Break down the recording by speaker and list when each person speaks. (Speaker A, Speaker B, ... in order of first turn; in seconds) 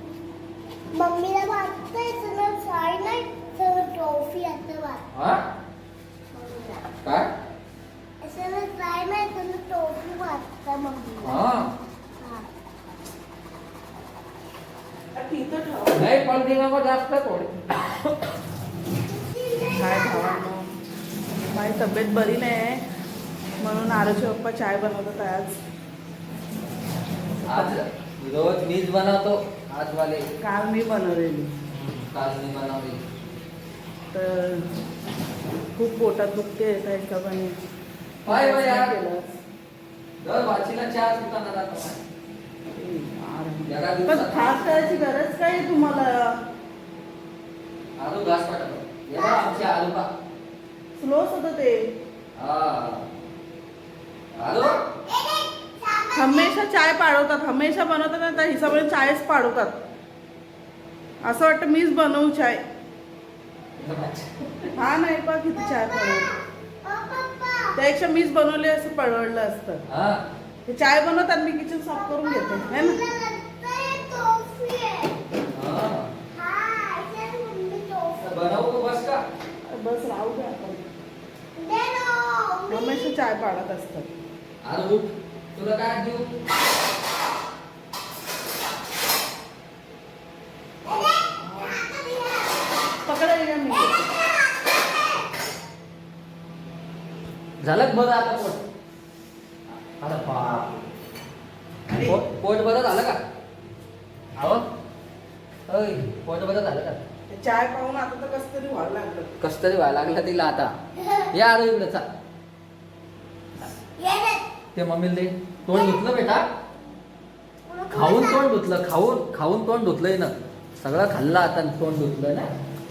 Speaker A: 0.9-5.0, 6.3-6.9, 8.2-11.4, 12.2-12.5, 19.0-20.5, 49.1-49.7, 55.0-56.6, 65.5-67.8, 71.9-75.1, 76.3-78.6, 81.6-83.1, 90.8-92.7, 93.7-95.2, 111.0-111.3, 114.0-114.5, 115.7-116.0, 117.7-118.5
Speaker B: 5.1-5.4, 7.0-7.3, 11.2-11.7, 15.9-18.1, 27.4-30.2, 31.7-33.0, 38.2-38.9, 40.2-42.0, 43.6-44.7, 48.0-50.1, 52.4-53.1, 54.3-54.8, 63.8-64.7, 69.9-70.2, 75.5-76.1, 78.2-79.2, 84.6-86.3, 97.6-98.6, 100.0-100.7, 102.0-103.2, 104.4-104.6, 105.7-107.0, 109.4-110.7, 111.3-112.0, 114.7-116.4, 117.9-122.5
Speaker C: 15.1-16.1, 19.7-20.7, 21.5-22.8, 23.6-25.6, 27.3-27.8, 30.4-31.5, 34.1-34.7, 35.8-37.6, 38.2-39.4, 42.7-46.4, 51.0-51.8, 56.1-59.8, 61.2-62.6, 64.7-66.3, 67.8-69.8, 70.7-73.0, 79.7-80.8, 82.7-84.1, 91.3-91.8, 93.0-94.1, 101.9-102.1, 107.3-109.3